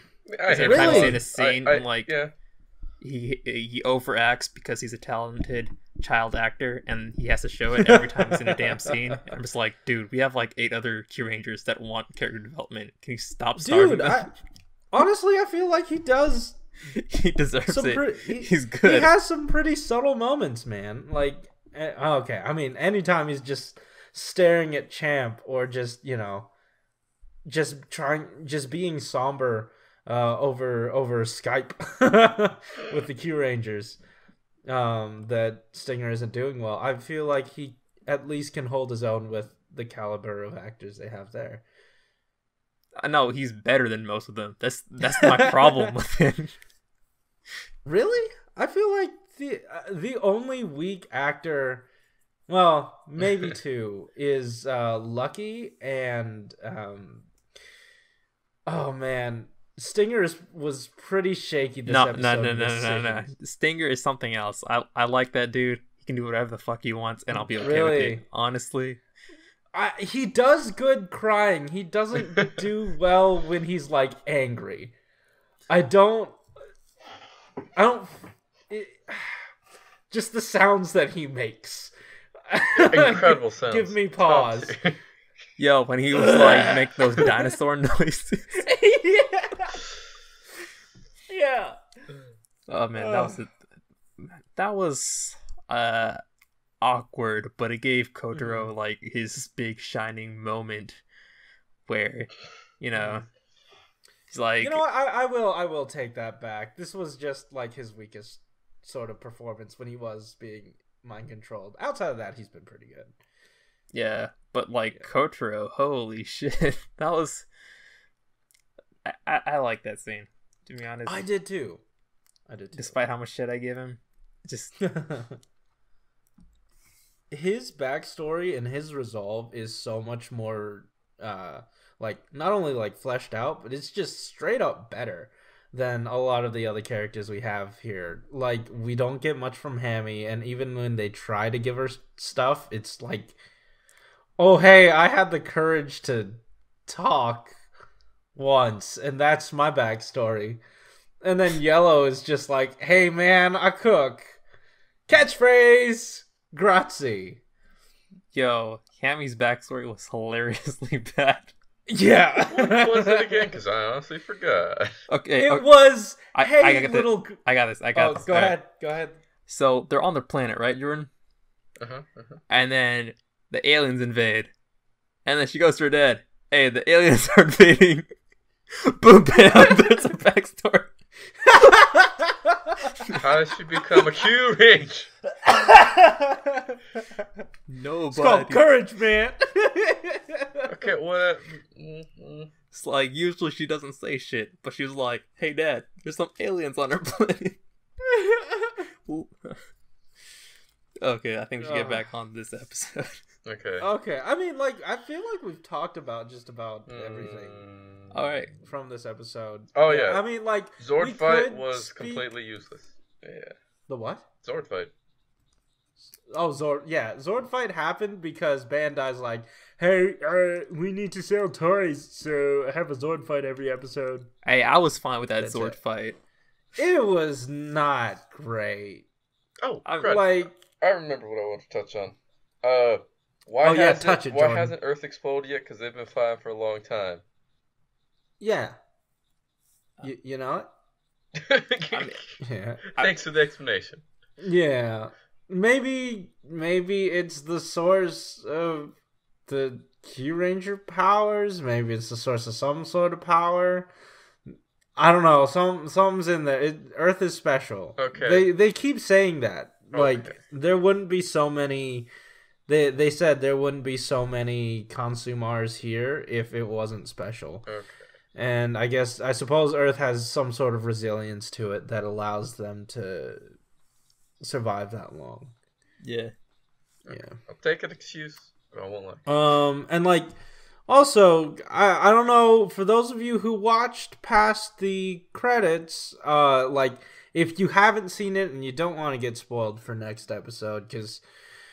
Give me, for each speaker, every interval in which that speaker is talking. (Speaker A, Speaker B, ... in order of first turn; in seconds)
Speaker A: 0.3-2.3, 82.8-85.0, 162.4-165.0, 171.8-172.4, 183.1-185.1, 190.7-192.5, 203.4-203.9, 206.9-208.1, 209.7-210.2, 210.8-213.5, 214.4-214.9, 229.6-237.2, 241.3-242.4, 242.9-244.0, 258.0-258.5, 259.9-260.4, 267.7-268.1, 277.0-279.3
Speaker B: 0.5-2.1, 3.0-14.3, 16.9-19.1, 43.0-46.5, 61.9-69.0, 85.6-88.6, 92.7-93.5, 94.2-96.2, 96.8-101.0, 101.8-103.2, 104.3-104.8, 113.9-117.5, 119.0-121.2, 122.8-124.8, 158.3-161.5, 165.1-165.7, 166.3-168.6, 169.5-171.1, 172.5-174.5, 175.2-178.1, 178.8-180.9, 187.7-188.6, 192.7-197.6, 199.1-199.6, 201.0-203.2, 208.1-208.5, 224.4-226.2, 229.8-230.2, 241.9-242.2, 276.0-276.3
Speaker C: 0.6-1.2, 7.8-9.2, 13.6-14.3, 14.9-16.6, 17.7-26.5, 27.4-34.0, 34.7-41.6, 45.0-45.9, 47.8-51.9, 52.5-57.3, 58.7-63.3, 67.3-68.2, 69.7-74.9, 75.7-76.4, 77.8-79.5, 80.1-81.9, 82.5-84.7, 86.1-87.3, 88.6-89.8, 91.3-91.8, 93.0-93.4, 98.3-98.7, 102.9-103.2, 104.6-113.2, 121.0-121.8, 122.5-123.0, 124.8-125.4, 127.3-143.3, 144.4-147.6, 148.3-150.6, 151.2-154.4, 155.1-157.4, 161.9-163.5, 165.4-167.4, 167.9-169.2, 181.4-183.2, 183.8-184.1, 185.3-187.4, 188.1-190.8, 198.1-198.8, 201.6-202.1, 203.8-207.6, 208.6-212.2, 213.9-214.2, 216.2-224.3, 225.4-225.8, 226.8-229.1, 230.0-230.6, 233.6-234.7, 238.4-238.8, 240.0-240.7, 242.4-242.8, 244.4-248.9, 249.4-253.9, 255.0-262.1, 262.7-267.7, 268.3-273.5, 274.4-275.5, 277.1-277.4, 279.3-280.3, 280.9-291.2